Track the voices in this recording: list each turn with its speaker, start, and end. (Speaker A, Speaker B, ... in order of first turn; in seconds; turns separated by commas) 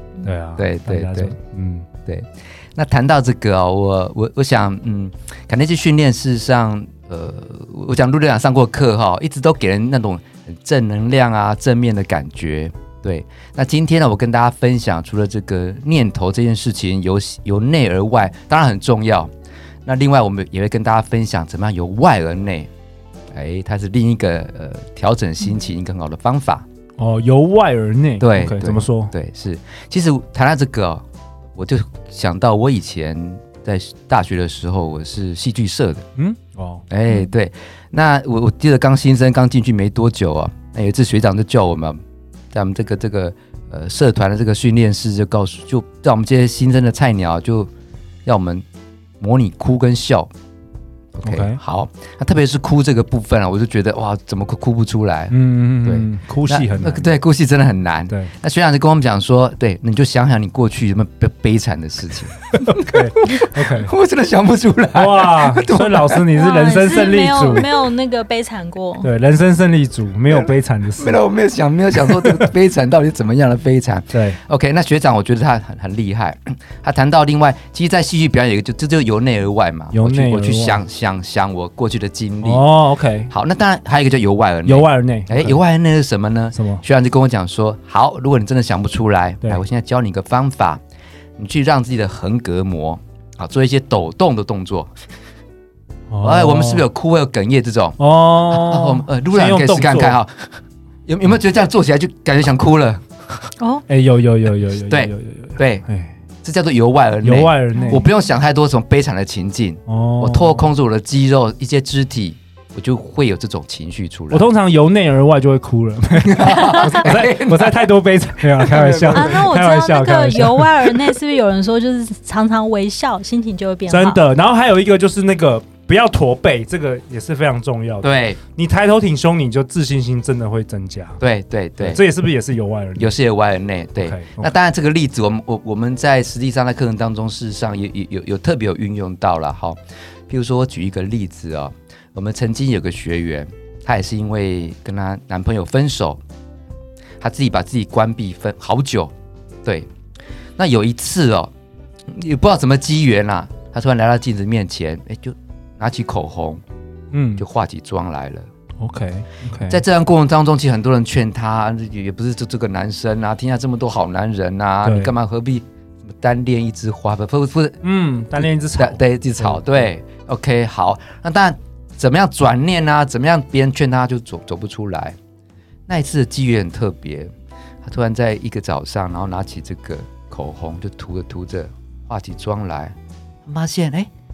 Speaker A: 0.2-1.9, Speaker B: 0.6-1.3, Speaker B: 2.1-19.3, Speaker B: 19.9-22.7, Speaker B: 23.3-26.6, Speaker A: 27.0-29.1, Speaker B: 28.2-31.0, Speaker B: 31.6-36.0, Speaker A: 36.2-36.9, Speaker B: 36.9-42.0, Speaker B: 42.5-47.7, Speaker B: 48.2-48.6, Speaker B: 49.2-50.3, Speaker B: 51.2-66.3, Speaker A: 51.2-51.6, Speaker A: 55.3-57.1, Speaker A: 62.6-63.9, Speaker A: 64.9-67.7, Speaker C: 66.3-69.1, Speaker A: 69.0-71.2, Speaker B: 70.3-82.7, Speaker A: 71.9-72.5, Speaker A: 74.1-74.4, Speaker A: 79.9-80.8, Speaker A: 82.4-83.3, Speaker B: 83.3-90.8, Speaker A: 84.7-85.6, Speaker A: 86.5-86.8, Speaker B: 91.4-94.9, Speaker A: 96.1-96.8, Speaker B: 96.2-98.0, Speaker A: 98.0-100.2, Speaker B: 98.5-103.4, Speaker A: 103.9-106.2, Speaker B: 104.9-105.8, Speaker B: 106.4-114.5, Speaker A: 107.2-108.0, Speaker C: 107.8-108.1, Speaker A: 109.9-110.7, Speaker A: 114.3-121.2, Speaker B: 116.2-117.9, Speaker B: 118.6-119.5, Speaker C: 119.1-124.2, Speaker A: 123.9-131.2, Speaker B: 128.0-128.4, Speaker B: 131.2-132.0, Speaker A: 131.8-133.2, Speaker B: 133.0-146.2, Speaker A: 134.0-134.5, Speaker B: 147.2-149.1, Speaker B: 150.6-151.5, Speaker B: 152.1-156.6, Speaker A: 157.1-157.4, Speaker B: 157.4-158.5, Speaker A: 158.8-159.8, Speaker B: 159.7-167.8, Speaker A: 164.8-165.1, Speaker A: 167.8-169.9, Speaker B: 168.4-175.2, Speaker B: 175.9-177.3, Speaker B: 177.8-182.9, Speaker B: 183.5-184.1